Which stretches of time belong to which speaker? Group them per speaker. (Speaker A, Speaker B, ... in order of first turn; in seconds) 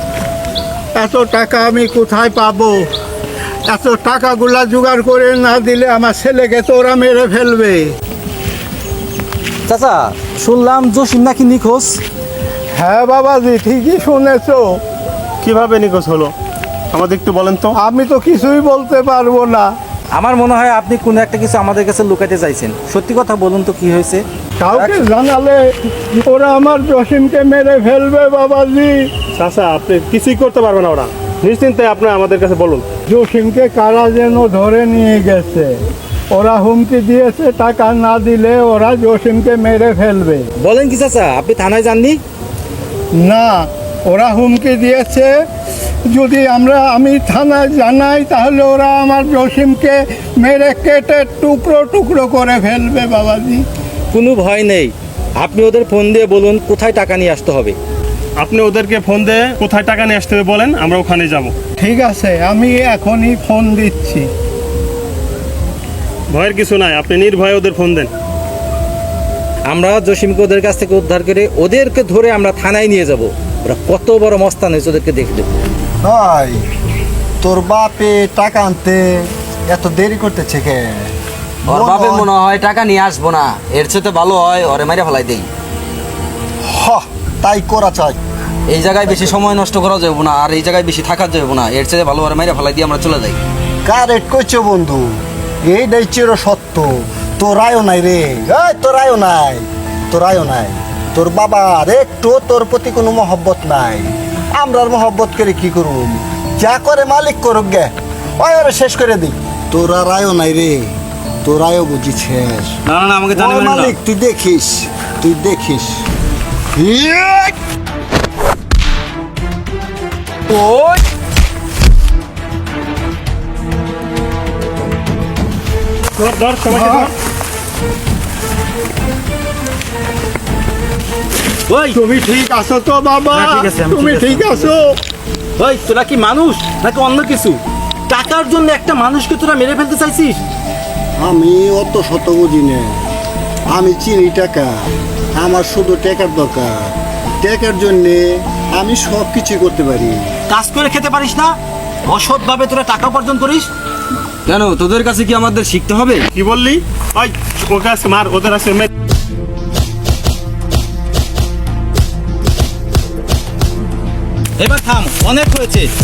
Speaker A: 0.9-2.9, 3.7-7.9, 12.7-14.8, 17.7-19.7, 24.6-29.1, 33.1-35.8, 36.3-40.5, 43.1-45.3, 46.1-53.6, 61.8-64.3, 126.7-127.1, 131.9-134.9
Speaker B: 9.7-12.0, 20.1-25.0, 40.6-42.2, 54.1-57.8, 69.7-75.6, 133.3-134.7, 135.6-140.4, 150.5-151.5, 152.1-153.7, 164.6-165.9
Speaker C: 15.4-16.3, 16.9-17.7, 29.3-32.9, 58.4-61.5, 66.3-68.1, 126.2-127.1, 156.3-158.9
Speaker D: 76.0-76.6, 77.4-81.1, 81.7-82.3, 86.6-88.2, 93.8-95.1, 95.6-110.9, 111.4-112.8, 113.3-116.0, 116.7-117.5, 141.2-143.0, 143.7-144.8, 145.3-150.3
Speaker E: 81.7-85.5, 88.7-93.4, 112.8-113.9, 154.4-156.3